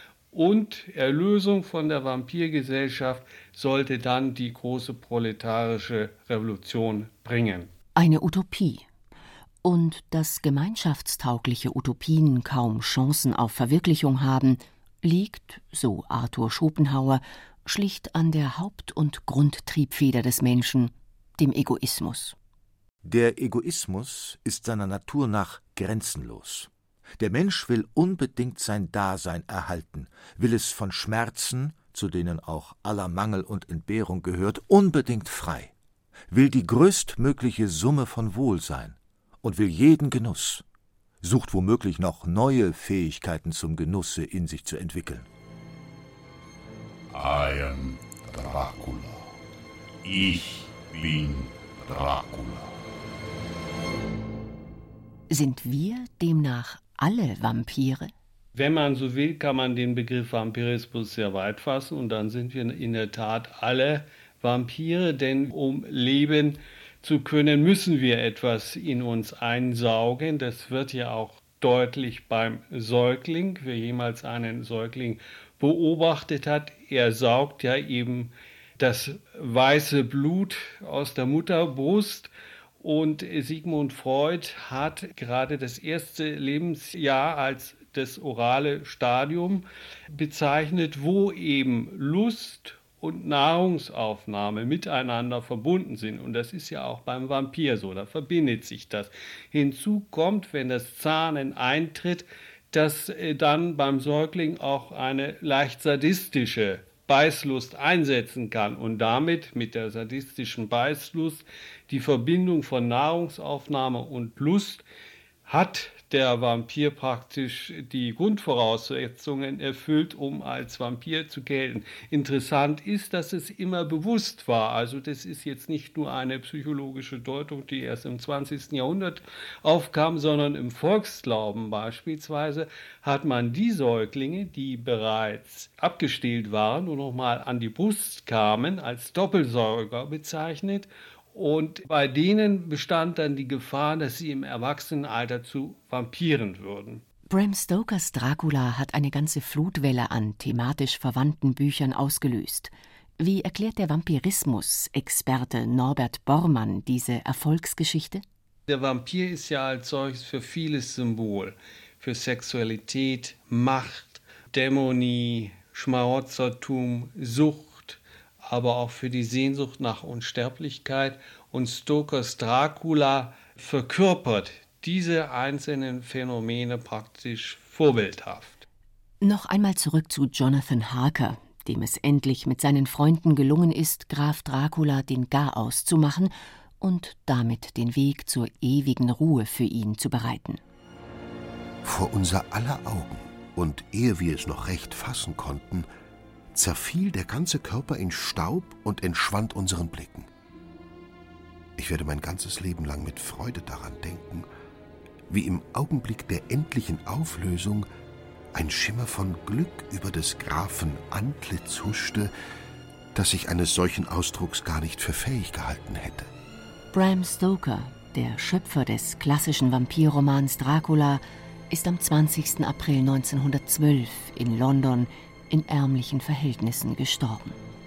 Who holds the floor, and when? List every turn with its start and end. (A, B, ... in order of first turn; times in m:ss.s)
0:00.3-0:07.7 A
0:08.0-0:08.8 B
0:09.6-0:22.4 B
0:23.0-0:35.7 C
0:36.3-0:40.6 C
0:41.2-0:45.3 C
0:47.1-0:49.4 D
0:50.0-0:52.8 D
0:55.3-0:58.1 B
0:58.5-1:22.3 A
1:22.8-1:54.8 A
1:55.4-2:27.0 A
2:27.3-2:38.2 B
2:38.7-2:58.6 A
2:59.2-3:10.6 B
3:11.8-3:15.9 E
3:16.5-3:20.3 E
3:21.8-3:24.5 E
3:25.3-3:27.9 E
3:28.5-3:32.3 E
3:33.1-3:36.3 E
3:36.9-3:47.6 B